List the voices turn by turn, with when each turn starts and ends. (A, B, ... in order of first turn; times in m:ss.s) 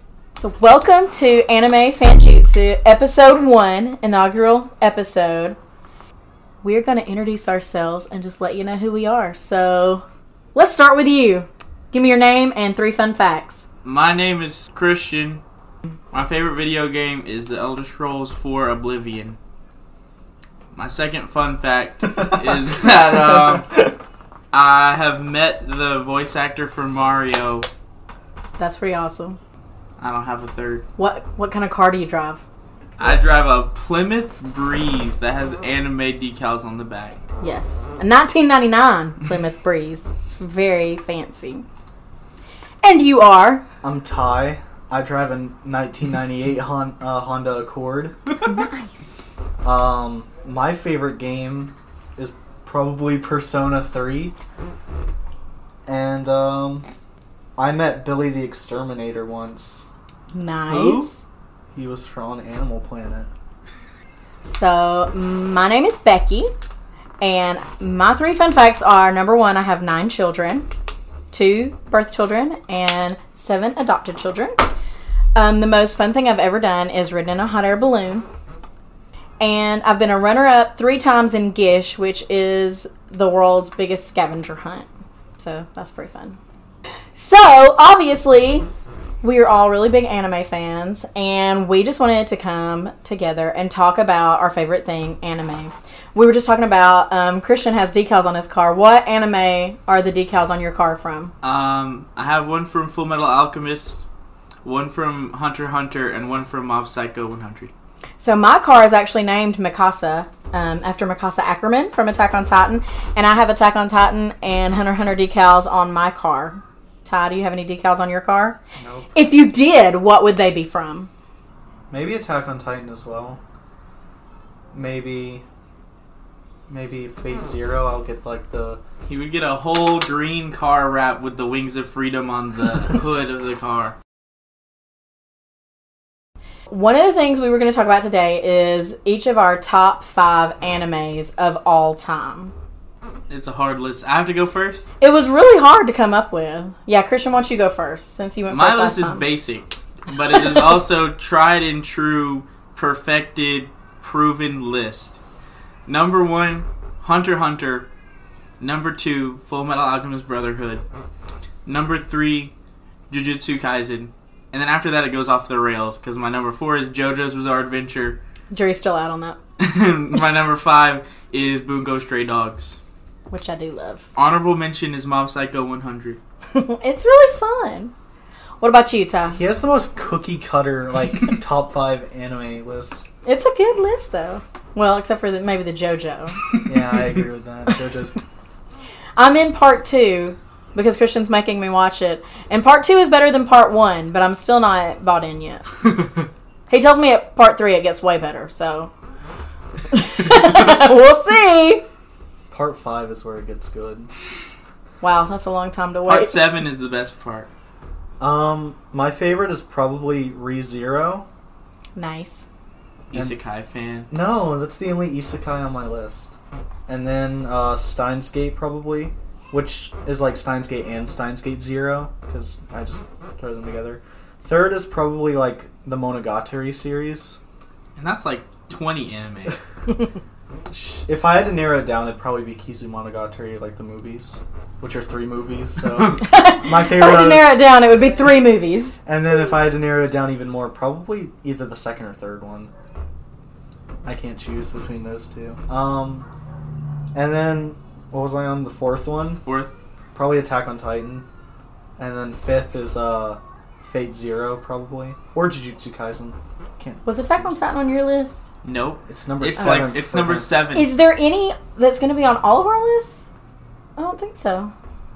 0:00.4-0:05.6 A
0:06.6-0:10.0 A
0:10.6-0:13.7 A
0:13.8-0:15.4 B
0:16.1-0:19.4 B
0:20.8-0:23.9 B
0:24.5-0:27.7 B
0:28.6-0:29.4 A
0:30.0-0:30.8 B
0:31.0-0:32.4 A
0:33.0-0:37.2 B
0:37.4-0:41.6 A
0:42.8-0:43.6 A
0:43.8-0:48.2 C
0:48.4-0:49.0 A
0:49.6-0:54.4 C
0:55.9-0:56.9 C
0:57.6-0:59.9 C
1:00.3-1:01.2 A
1:00.7-1:01.1 B
1:01.7-1:03.3 C
1:04.4-1:06.5 A
1:07.2-1:10.7 A
1:11.3-1:14.6 A
1:15.4-1:18.3 A
1:19.4-1:24.9 A
1:25.4-1:26.4 A
1:27.2-1:28.7 A
1:29.2-1:41.3 A
1:41.4-1:44.0 B
1:44.6-1:47.7 B
1:48.2-1:58.6 A
1:58.8-1:59.1 C
1:59.1-2:01.1 A
2:01.9-2:03.4 C
2:04.7-2:05.4 C
2:06.7-2:08.8 C
2:09.1-2:14.0 B
2:16.7-2:22.5 A
2:23.3-2:24.9 B
2:25.0-2:29.2 A
2:28.5-2:35.2 B
2:35.9-2:37.9 B
2:38.6-2:40.8 B
2:41.6-2:42.5 B
2:43.1-2:48.2 B
2:48.5-2:49.4 A
2:49.6-2:52.8 B
2:53.3-2:54.1 A
2:54.2-2:56.2 B
2:56.5-2:57.9 A
2:58.6-2:59.4 A
2:59.3-3:03.1 C
3:03.2-3:06.4 A
3:06.6-3:08.2 C
3:09.2-3:15.7 A
3:16.7-3:18.9 A
3:19.9-3:21.8 A
3:22.5-3:24.1 C
3:25.0-3:26.4 A
3:26.1-3:27.5 B
3:28.2-3:31.3 C
3:32.0-3:32.5 A
3:33.1-3:34.1 B
3:34.1-3:36.3 C
3:36.9-3:47.4 C
3:48.0-3:49.6 B
3:50.7-3:57.6 C
3:56.2-3:59.0 A
3:59.1-4:02.7 C
4:04.0-4:06.3 C
4:07.1-4:09.4 C
4:09.5-4:09.7 B
4:10.2-4:11.3 C
4:12.0-4:17.5 C
4:17.1-4:18.5 A
4:18.6-4:20.9 B
4:19.1-4:20.5 C
4:20.8-4:23.3 A
4:24.0-4:24.7 A